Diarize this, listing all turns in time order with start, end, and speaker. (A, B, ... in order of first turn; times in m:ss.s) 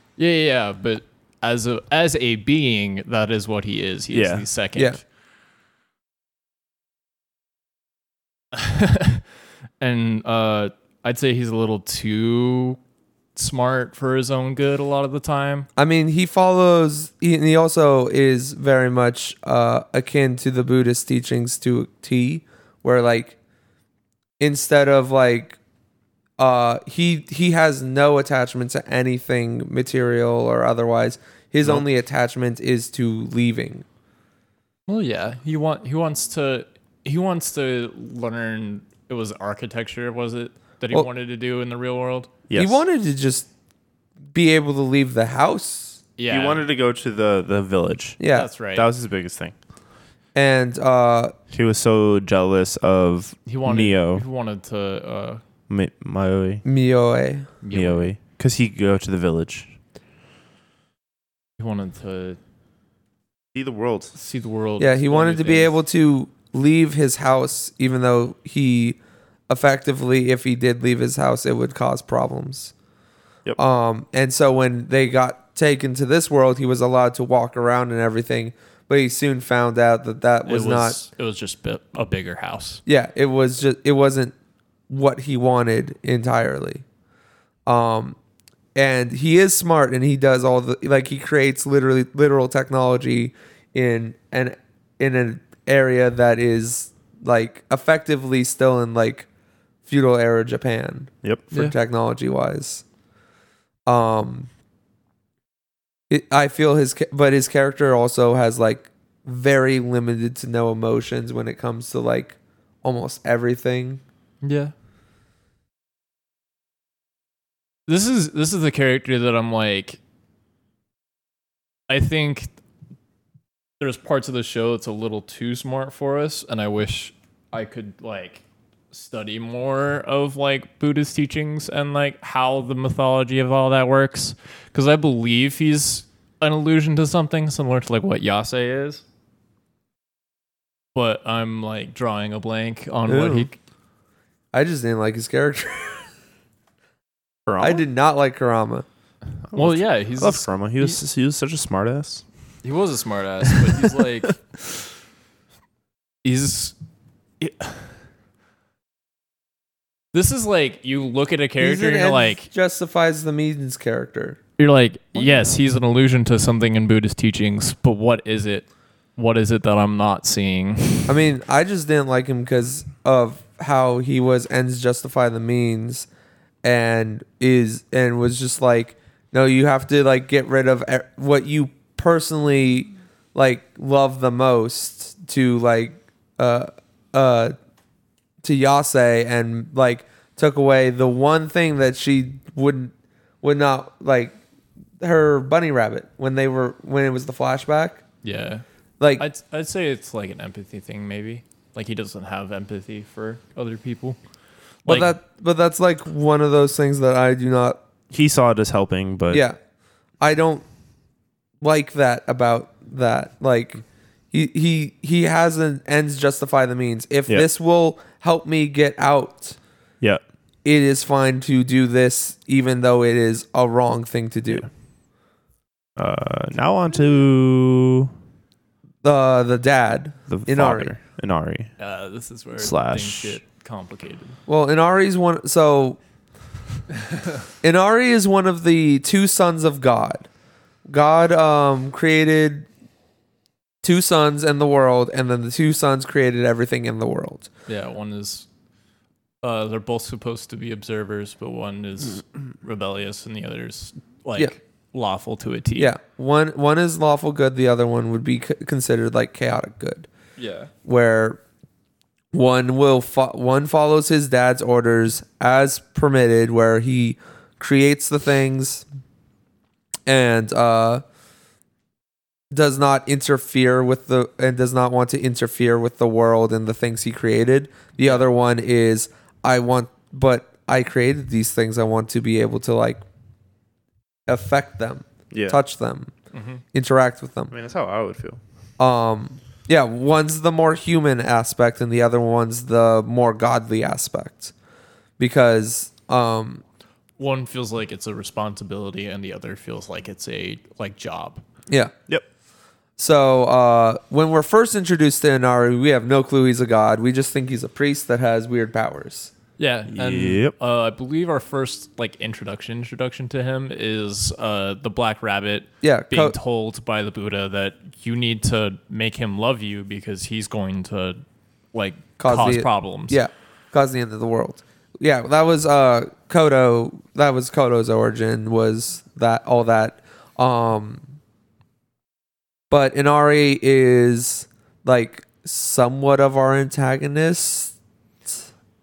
0:00.2-0:05.0 A
0:04.1-0:04.5 B
0:08.5-0:09.2 A
0:09.8-0:12.8 A
0:13.4-0:15.7 A
0:15.8-0:23.4 C
0:24.4-0:25.6 C
0:26.4-0:33.8 C
0:34.9-0:42.3 A
0:42.5-0:42.8 B
0:42.6-0:43.5 C
0:44.3-0:46.0 C
0:46.2-0:46.7 A
0:46.3-0:49.5 B
0:48.2-0:48.5 C
0:48.3-0:48.9 A
0:50.4-0:51.3 C
0:51.5-0:54.2 B
0:53.5-0:55.4 A
0:55.7-0:56.6 B
0:56.6-0:57.5 C
0:57.6-0:58.1 A
0:57.7-0:59.7 B
1:01.6-1:02.4 A
1:03.5-1:04.1 B
1:04.2-1:05.8 A
1:04.8-1:09.0 C
1:09.5-1:12.7 C
1:13.6-1:21.0 C
1:20.5-1:22.8 A
1:22.9-1:24.3 C
1:24.9-1:26.8 C
1:27.7-1:28.2 C
1:28.8-1:39.3 C
1:39.9-1:42.8 C
1:43.9-1:44.5 C
1:46.1-1:54.0 C
1:54.4-1:54.7 A
1:57.9-2:00.0 A
2:01.9-2:02.5 A
2:03.8-2:19.0 A
2:21.0-2:23.6 A
2:23.1-2:23.5 C
2:24.5-2:26.1 C
2:27.5-2:27.8 B
2:27.6-2:28.8 C
2:29.5-2:32.2 B
2:29.5-2:31.0 A
2:32.6-2:34.4 A
2:36.2-2:36.8 A
2:37.4-2:37.8 A
2:40.1-2:42.5 A
2:41.6-2:44.4 C
2:44.6-2:48.7 A
2:45.2-2:45.5 C
2:49.2-2:51.2 A
2:51.1-2:56.1 C
2:56.6-3:07.5 C
3:08.4-3:14.4 C
3:15.0-3:18.0 C
3:18.2-3:18.6 A
3:19.0-3:19.2 C
3:19.2-3:24.2 A
3:24.8-3:25.2 A
3:24.9-3:27.8 C
3:28.1-3:29.4 B
3:29.3-3:29.6 C
3:30.2-3:30.6 C
3:31.6-3:39.6 C
3:40.6-3:44.7 C
3:46.0-3:48.1 B
3:49.0-3:50.9 C
3:50.3-3:51.7 B
3:51.8-3:54.4 A
3:52.6-3:53.4 B
3:54.5-3:56.0 C
3:57.6-4:00.3 C
4:00.9-4:02.7 C
4:03.8-4:07.5 C
4:07.7-4:08.5 A
4:09.4-4:15.9 A
4:15.8-4:20.1 C
4:20.4-4:20.7 A
4:20.8-4:21.4 C
4:22.3-4:28.9 C
4:30.1-4:31.0 C
4:32.5-4:43.0 C
4:44.3-4:46.1 C
4:45.3-4:45.6 B
4:46.3-4:46.6 A
4:46.7-4:47.5 C
4:47.5-4:48.4 B
4:48.8-4:54.5 C
4:55.2-4:56.6 C
4:57.2-5:01.4 A
5:03.0-5:09.3 C
5:09.6-5:21.2 A
5:09.9-5:10.5 B
5:15.8-5:16.4 C
5:21.7-5:23.2 A
5:22.2-5:31.0 C
5:32.7-5:37.7 C